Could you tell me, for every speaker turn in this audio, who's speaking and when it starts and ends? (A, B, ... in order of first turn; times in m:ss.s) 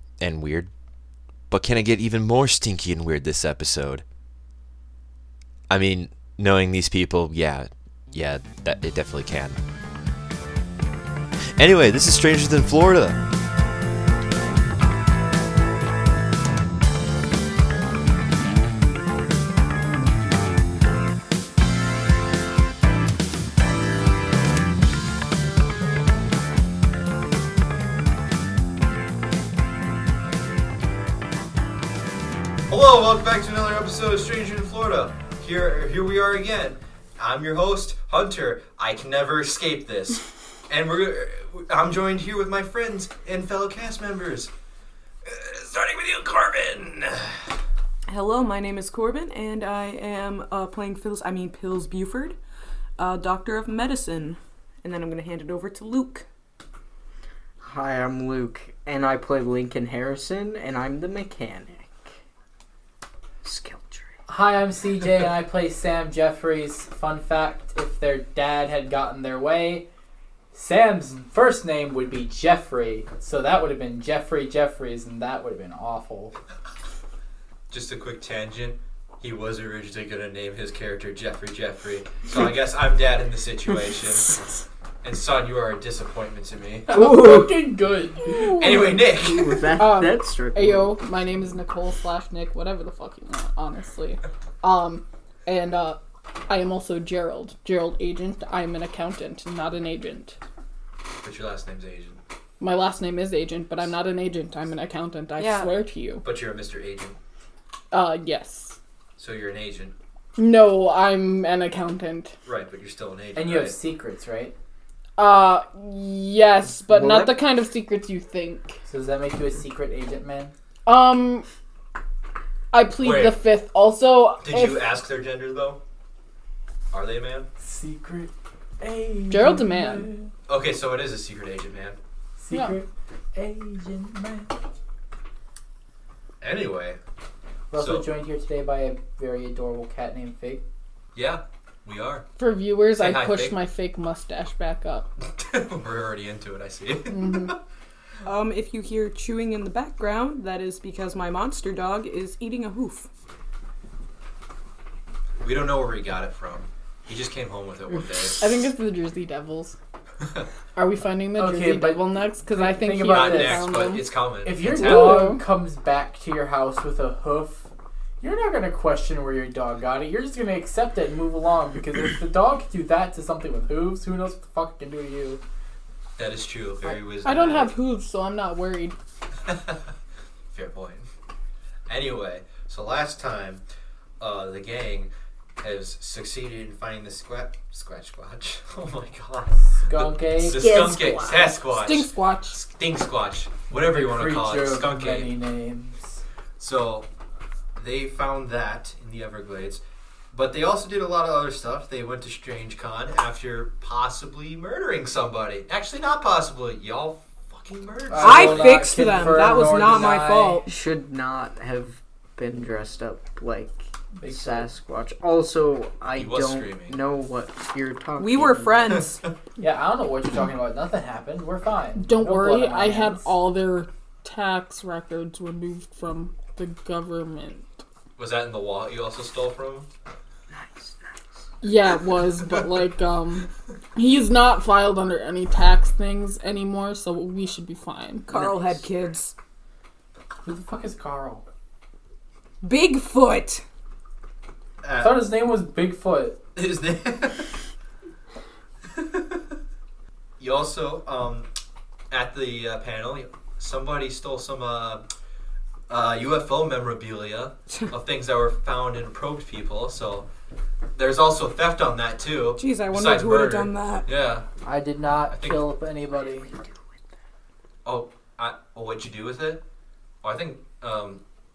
0:00.2-0:00.7 A
0:01.5-0:04.0 A
0:05.7-0:09.6 A
0:11.6-0:13.2 A
0:32.7-0:44.5 B
0:45.2-0:47.4 B
0:48.1-0:52.4 C
0:53.0-0:56.3 C
0:57.6-1:02.1 D
1:03.4-1:04.1 D
1:04.3-1:09.9 E
1:10.5-1:16.4 E
1:17.7-1:24.3 B
1:25.0-1:27.2 B
1:26.9-1:28.7 E
1:26.9-1:27.7 D
1:28.3-1:28.9 F
1:28.4-1:29.8 B
1:28.9-1:31.0 D
1:29.8-1:40.4 F
1:41.2-1:42.2 B
1:42.6-1:46.2 F
1:45.4-1:45.7 C
1:46.2-1:47.2 B
1:47.9-1:48.8 F
1:49.2-1:49.9 B
1:50.4-1:52.3 F
1:52.5-1:53.8 B
1:53.4-1:54.5 E
1:55.2-1:58.8 F
1:56.9-1:57.4 D
1:58.9-2:00.5 E
2:00.9-2:01.5 F
2:02.7-2:05.0 F
2:03.0-2:03.4 B
2:04.4-2:05.8 B
2:06.9-2:07.5 B
2:07.6-2:10.3 E
2:09.3-2:10.1 F
2:10.5-2:12.0 B
2:12.4-2:14.5 E
2:12.5-2:12.8 F
2:16.4-2:17.0 B
2:17.7-2:20.6 E
2:17.7-2:18.1 B
2:21.2-2:22.3 B
2:22.4-2:25.1 F
2:22.9-2:23.6 B
2:25.3-2:27.6 B
2:27.1-2:27.5 F
2:28.2-2:33.1 C
2:35.4-2:38.7 B
2:38.4-2:39.8 F
2:40.8-2:44.1 F
2:41.4-2:43.8 E
2:43.0-2:45.4 B
2:44.4-2:47.7 E
2:44.6-2:45.4 F
2:48.2-2:55.4 E
2:56.2-2:57.8 B
2:56.9-2:59.0 F
2:59.5-2:59.8 B
3:00.5-3:01.1 B
3:01.9-3:03.6 B
3:04.2-3:15.3 B
3:09.8-3:10.7 E
3:10.8-3:11.3 D
3:10.9-3:12.6 F
3:13.8-3:16.2 E
3:16.6-3:17.1 B
3:17.8-3:19.8 B
3:20.3-3:29.1 B
3:28.1-3:30.6 E
3:28.2-3:30.7 C
3:30.7-3:39.0 D
3:34.2-3:34.7 E
3:36.2-3:37.0 B
3:38.2-3:39.2 C
3:39.6-3:43.3 E
3:42.0-3:47.8 F
3:48.2-3:49.9 B
3:50.5-3:51.2 D
3:51.6-3:58.3 F
3:58.3-3:59.4 C
4:00.4-4:01.4 E
4:02.6-4:03.6 C
4:04.8-4:05.3 B
4:05.0-4:06.4 E
4:06.6-4:07.5 B
4:08.9-4:09.4 B
4:10.4-4:11.5 B
4:12.1-4:15.0 B
4:15.9-4:20.3 B
4:21.0-4:24.5 B
4:22.6-4:24.1 C
4:24.6-4:26.5 E
4:25.3-4:25.7 B
4:27.8-4:29.6 B
4:30.2-4:31.2 B